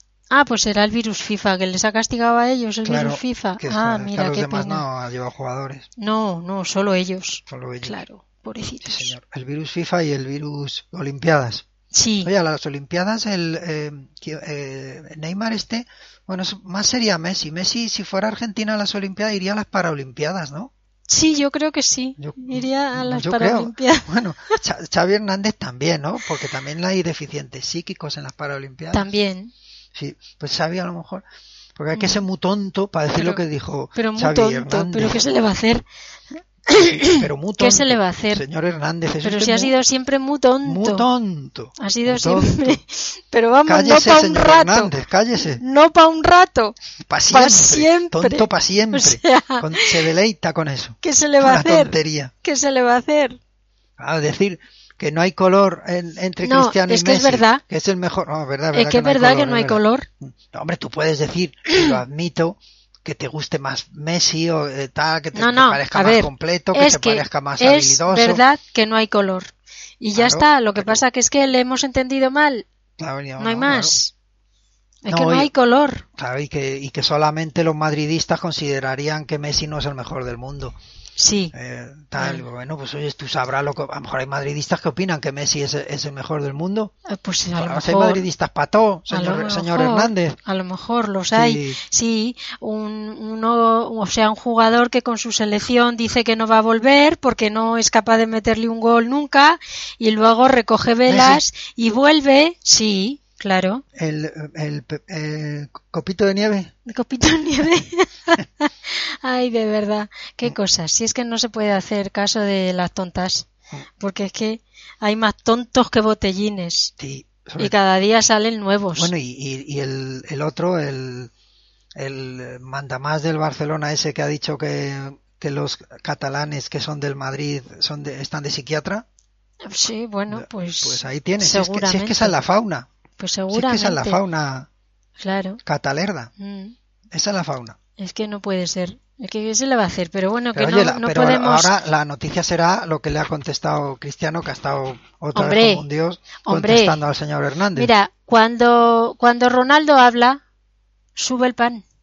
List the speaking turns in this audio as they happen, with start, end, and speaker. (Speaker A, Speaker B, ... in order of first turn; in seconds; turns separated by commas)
Speaker A: 0.3-4.8, Speaker B: 2.9-5.9, Speaker A: 6.0-9.1, Speaker B: 7.5-8.0, Speaker B: 8.8-11.7, Speaker A: 11.9-12.3, Speaker B: 12.2-20.7, Speaker A: 21.1-24.1, Speaker B: 22.2-29.1, Speaker A: 28.9-29.5, Speaker B: 29.9-31.2, Speaker B: 31.8-35.2, Speaker A: 31.9-32.2, Speaker A: 33.2-33.4, Speaker A: 34.0-35.8, Speaker A: 36.7-38.4, Speaker B: 37.0-39.7, Speaker A: 39.2-41.1, Speaker B: 40.6-42.8, Speaker A: 41.8-46.8, Speaker B: 43.7-45.6, Speaker B: 47.1-52.3, Speaker A: 47.3-50.0, Speaker A: 51.0-53.4, Speaker B: 54.0-68.4, Speaker A: 56.4-57.6, Speaker A: 58.7-60.1, Speaker A: 61.7-62.0, Speaker A: 65.3-72.7, Speaker B: 70.2-71.0, Speaker B: 73.0-74.0, Speaker A: 73.4-74.1, Speaker A: 75.0-76.0, Speaker B: 75.1-75.5, Speaker B: 76.2-80.8, Speaker A: 81.2-81.5, Speaker B: 81.5-86.9, Speaker A: 82.2-82.4, Speaker A: 87.1-88.2, Speaker B: 87.6-90.4, Speaker A: 89.1-103.8, Speaker B: 91.3-91.8, Speaker B: 101.1-101.4, Speaker B: 104.0-106.7, Speaker A: 106.9-113.5, Speaker A: 114.0-116.9, Speaker B: 117.0-117.8, Speaker A: 117.6-119.1, Speaker B: 119.0-121.3, Speaker B: 122.0-129.1, Speaker A: 129.7-132.4, Speaker B: 130.3-132.9, Speaker A: 133.2-134.2, Speaker B: 133.5-134.7, Speaker A: 135.2-135.6, Speaker B: 135.6-136.3, Speaker A: 136.4-136.8, Speaker B: 137.1-137.8, Speaker A: 138.0-141.7, Speaker B: 140.6-147.9, Speaker A: 145.3-145.8, Speaker A: 146.4-147.0, Speaker A: 147.8-150.4, Speaker A: 151.2-151.8